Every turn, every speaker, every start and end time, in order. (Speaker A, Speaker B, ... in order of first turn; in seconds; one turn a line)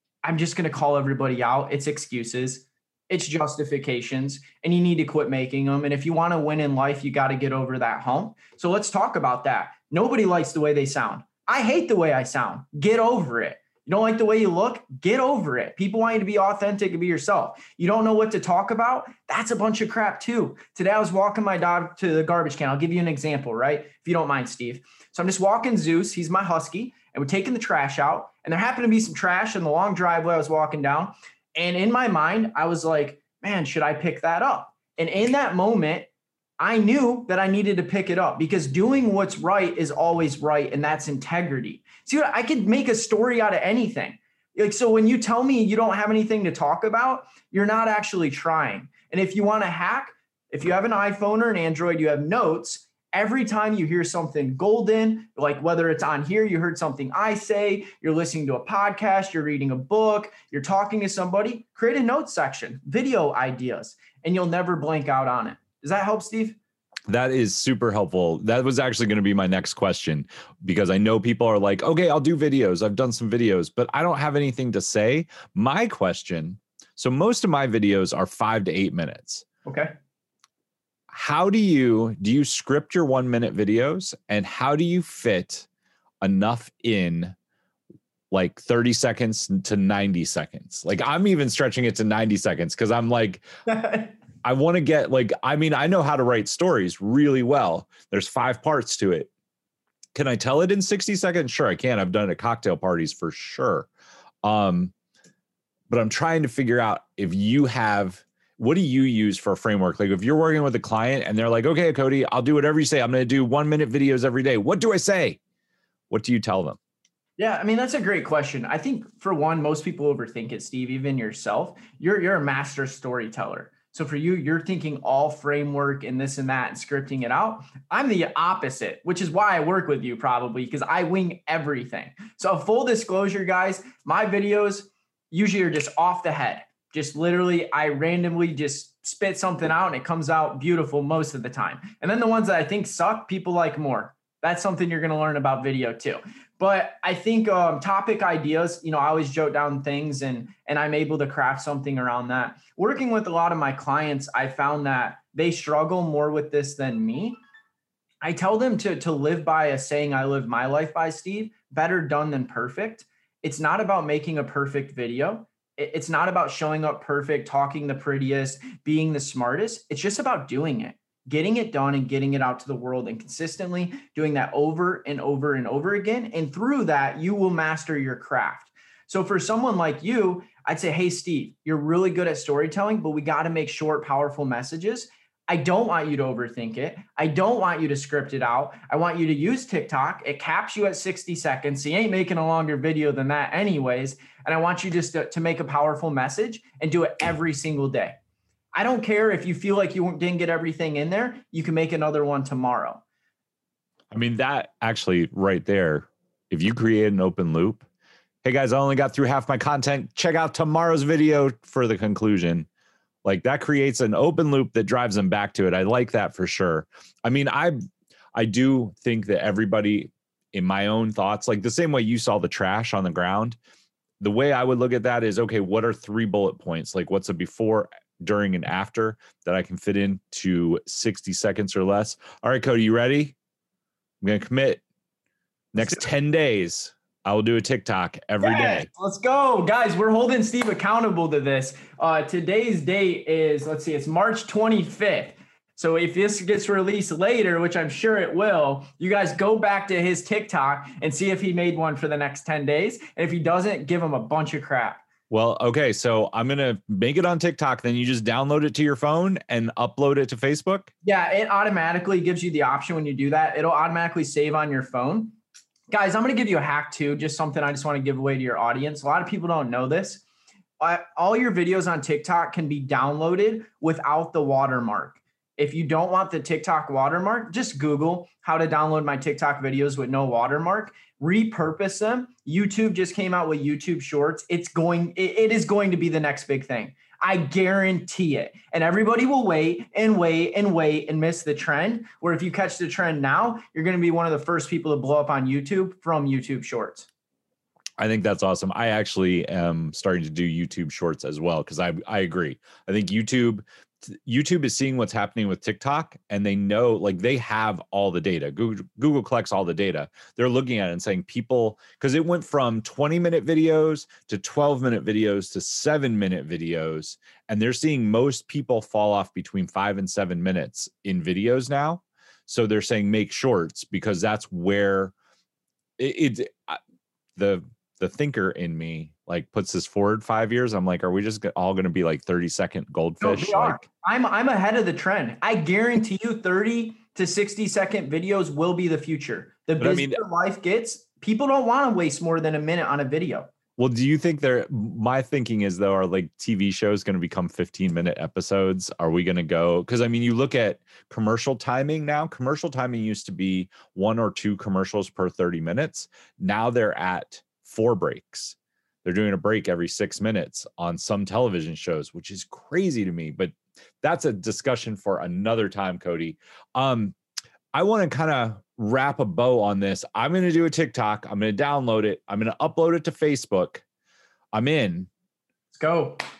Speaker A: 0.2-66.6
Speaker B: 67.1-79.5
Speaker A: 79.7-79.9
Speaker B: 81.1-85.7
Speaker B: 86.2-87.3
Speaker B: 88.3-93.5
Speaker A: 93.7-94.1
Speaker B: 94.4-99.3
Speaker B: 100.1-103.9
Speaker B: 104.4-104.9
Speaker B: 105.9-115.4
Speaker B: 116.1-116.8
Speaker A: 117.4-157.4
Speaker A: 158.2-198.2
Speaker A: 198.7-203.0
Speaker B: 204.1-207.8
Speaker B: 208.4-212.7
Speaker B: 213.2-217.8
Speaker B: 218.3-223.6
Speaker B: 224.2-233.3
Speaker B: 234.2-234.8
Speaker B: 235.7-238.9
Speaker A: 238.4-255.0
Speaker B: 255.3-260.9
Speaker A: 261.0-265.4
Speaker A: 265.9-270.2
Speaker A: 270.8-297.1
Speaker B: 298.0-325.1
Speaker B: 326.0-326.8
Speaker B: 327.4-333.8
Speaker A: 333.2-343.5
Speaker B: 339.8-340.2
Speaker B: 343.8-367.1
Speaker B: 367.7-373.8
Speaker B: 374.5-375.1
Speaker A: 375.7-376.2